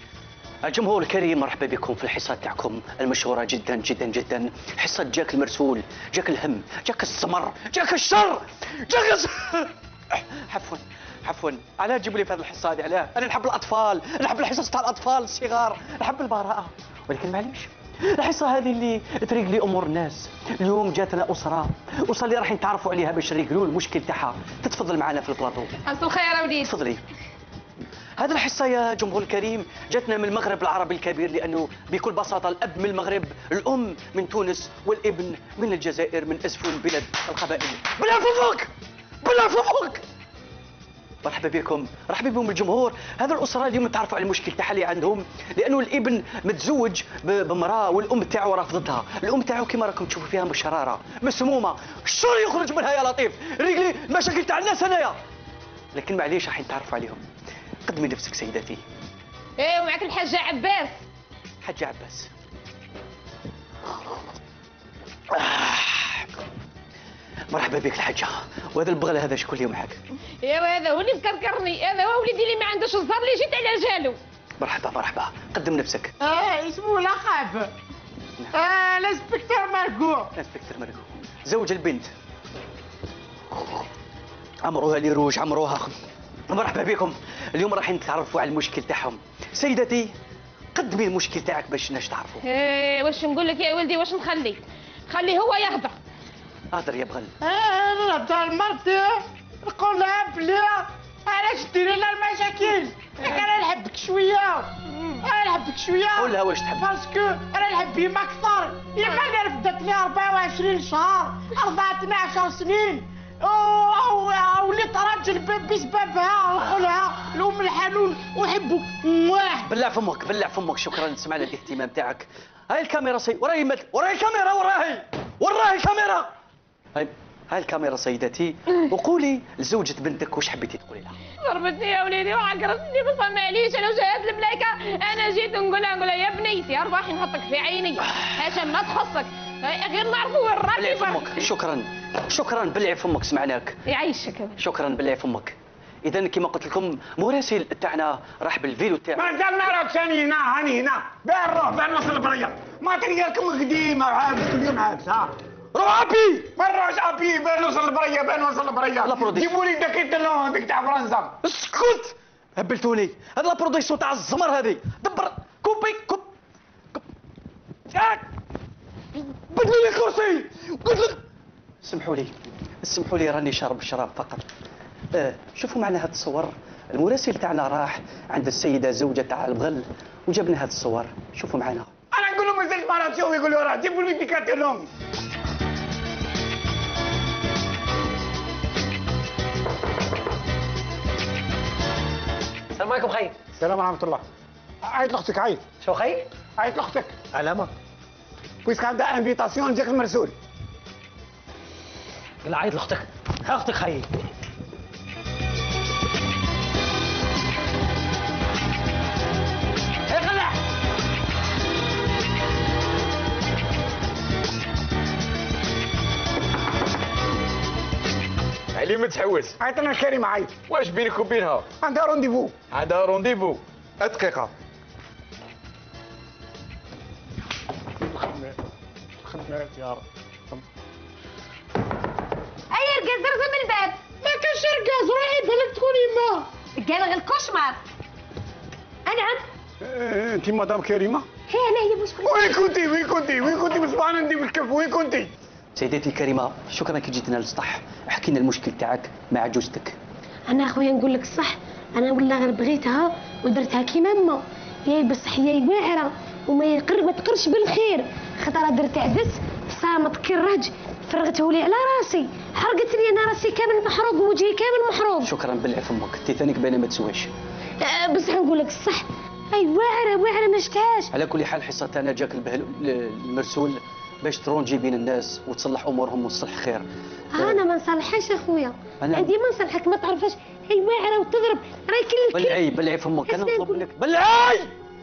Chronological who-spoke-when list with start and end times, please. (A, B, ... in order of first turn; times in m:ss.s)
0:00.6-0:25.7 A
0:25.8-0:26.7 B
0:26.6-0:27.0 A
0:28.2-0:38.7 A
0:39.2-0:40.0 A
0:41.2-0:55.2 A
0:55.9-0:57.2 A
0:57.8-0:58.8 A
0:59.6-1:01.0 B
1:01.6-1:02.3 A
1:05.3-1:06.3 A
1:07.5-1:10.0 A
1:10.4-1:14.2 B
1:14.6-1:16.1 A
1:16.2-1:17.7 C
1:18.5-1:20.3 C
1:20.3-1:22.1 A
1:24.6-1:30.1 A
1:30.7-1:32.4 A
1:32.4-1:35.9 B
1:36.7-1:37.3 A
1:37.4-1:59.7 C
1:46.1-1:46.8 A
1:59.6-2:06.3 A
2:06.9-2:11.2 A
2:11.4-2:21.4 B
2:20.7-2:23.8 A
2:23.9-2:24.6 B
2:24.6-2:29.3 A
2:29.1-2:35.3 D
2:35.7-2:36.5 A
2:36.5-2:41.4 D
2:39.0-2:39.5 A
2:41.4-2:46.3 A
2:47.9-2:48.2 A
2:49.5-2:51.2 A
2:51.8-2:54.4 A
2:55.1-3:01.9 A
3:02.1-3:04.8 D
3:12.7-3:13.3 E
3:13.6-3:14.2 D
3:14.8-3:15.6 D
3:15.8-3:16.2 E
3:16.6-3:17.2 D
3:17.3-3:17.7 E
3:18.6-3:20.3 D
3:22.4-3:24.1 E
3:30.1-3:30.5 E
3:38.7-3:39.6 F
3:39.6-3:40.6 D
3:40.7-3:41.7 F
3:41.7-3:42.6 D
3:42.7-3:43.6 F
3:44.0-3:44.5 D
3:49.2-3:50.6 D
3:52.7-3:54.0 G
3:54.2-3:56.5 C
3:56.8-3:57.8 G
3:59.0-3:59.4 G
3:59.8-4:01.2 D
4:01.5-4:02.6 G
4:02.2-4:05.3 D
4:05.7-4:10.0 A
4:10.5-4:25.3 G
4:25.2-4:27.3 A
4:27.8-4:31.1 G
4:31.1-4:37.6 A
4:37.3-4:42.7 G
4:39.0-4:39.3 A
4:42.3-4:44.7 A
4:43.2-4:43.8 G